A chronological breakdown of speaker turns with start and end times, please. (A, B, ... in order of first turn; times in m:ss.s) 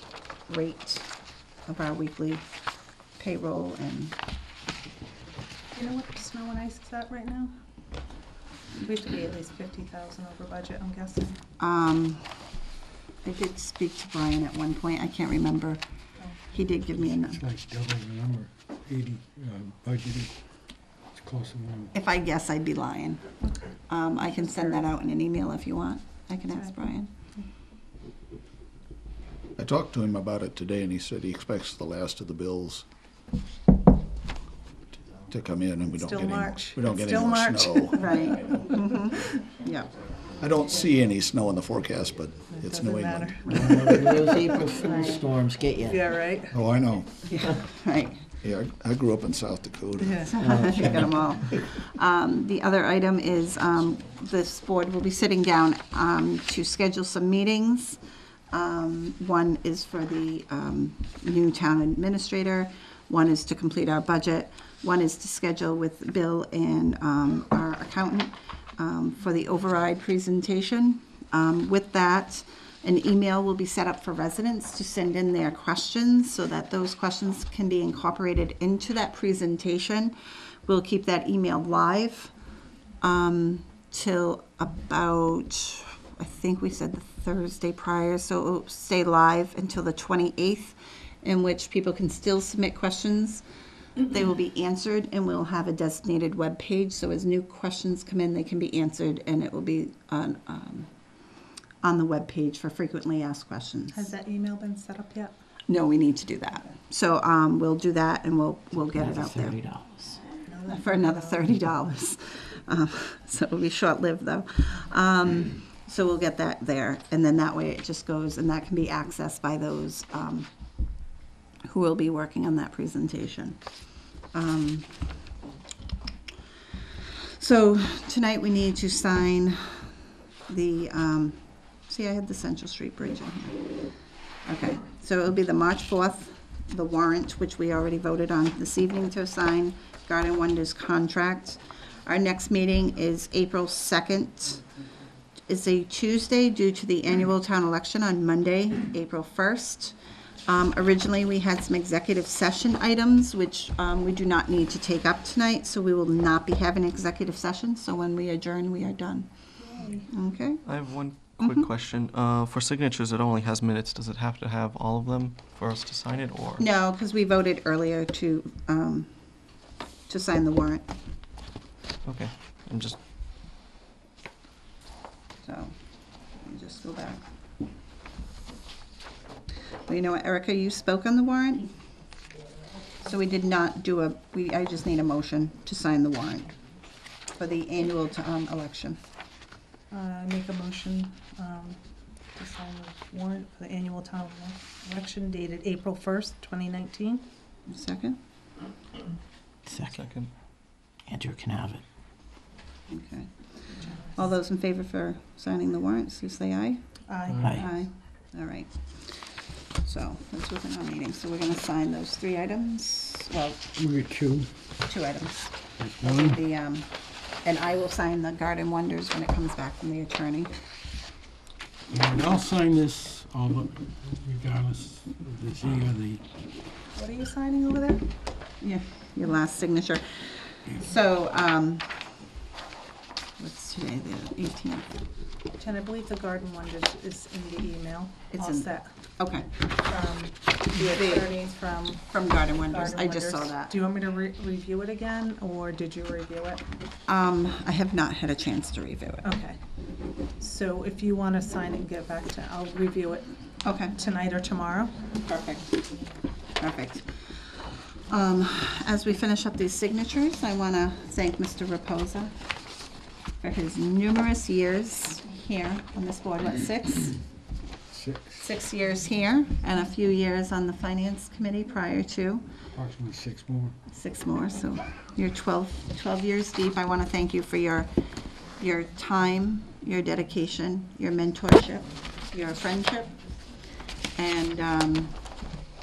0:00.5-0:01.1 A
0:01.7-0:02.5 A
0:03.2-0:04.2 A
0:05.7-0:07.5 B
0:08.8-0:11.4 B
0:11.6-0:12.3 A
0:13.2-0:15.8 A
0:16.5-0:17.4 A
0:16.9-0:20.4 C
0:21.1-0:21.9 C
0:21.9-0:23.3 A
0:23.9-0:27.1 A
0:26.5-0:26.8 B
0:29.6-0:32.9 D
0:35.3-0:38.0 D
0:35.9-0:38.2 B
0:38.0-0:39.9 A
0:38.2-0:42.5 E
0:40.4-0:43.6 D
0:42.5-0:45.1 B
0:43.5-0:46.3 E
0:44.8-0:45.3 A
0:45.8-0:46.6 B
0:46.5-0:47.3 D
0:47.3-0:48.2 A
0:48.4-0:50.3 D
0:50.0-0:50.3 B
0:50.2-0:58.0 A
0:50.4-0:51.3 E
0:58.5-1:20.2 A
1:20.7-1:22.3 A
1:23.0-1:33.4 A
1:34.0-1:40.9 A
1:41.8-1:44.1 A
1:43.9-1:45.4 B
1:45.7-1:49.6 A
1:49.0-1:50.0 E
1:50.5-1:51.4 B
1:50.7-2:00.5 A
2:01.7-2:03.6 A
2:04.3-2:05.1 A
2:07.4-2:09.9 A
2:10.5-2:13.7 A
2:14.4-2:24.6 A
2:25.5-2:39.3 A
2:39.6-2:40.1 B
2:40.1-2:40.6 A
2:40.6-2:46.7 F
2:41.2-2:41.6 A
2:46.6-2:49.5 A
2:50.1-2:50.9 A
2:52.0-2:53.0 F
2:55.4-2:55.8 A
2:56.3-2:57.2 A
2:59.9-3:01.7 A
3:03.0-3:06.5 A
3:07.3-3:09.0 A
3:09.9-3:11.8 B
3:12.3-3:17.3 B
3:17.7-3:18.2 A
3:19.8-3:20.3 F
3:21.1-3:21.8 C
3:21.1-3:21.8 E
3:22.9-3:28.7 A
3:27.1-3:27.7 B
3:27.3-3:27.6 C
3:29.8-3:33.6 A
3:33.8-3:34.5 C
3:34.8-3:36.9 A
3:35.8-3:36.4 C
3:37.4-3:40.5 A
3:41.9-3:46.2 C
3:46.9-3:48.1 B
3:48.6-3:51.9 A
3:53.4-3:54.9 A
3:55.5-3:58.9 B
3:58.3-3:59.5 A
3:59.8-4:06.7 B
4:00.8-4:01.3 A
4:02.1-4:03.8 A
4:07.1-4:09.3 A
4:09.2-4:09.6 B
4:10.4-4:15.0 B
4:13.6-4:14.0 A
4:15.2-4:15.7 A
4:16.6-4:17.2 A
4:18.1-4:22.4 A
4:23.4-4:27.2 A
4:27.9-4:28.5 C
4:28.4-4:32.4 A
4:32.7-4:33.8 C
4:33.9-4:37.9 A
4:38.6-4:43.2 A
4:44.2-4:45.2 A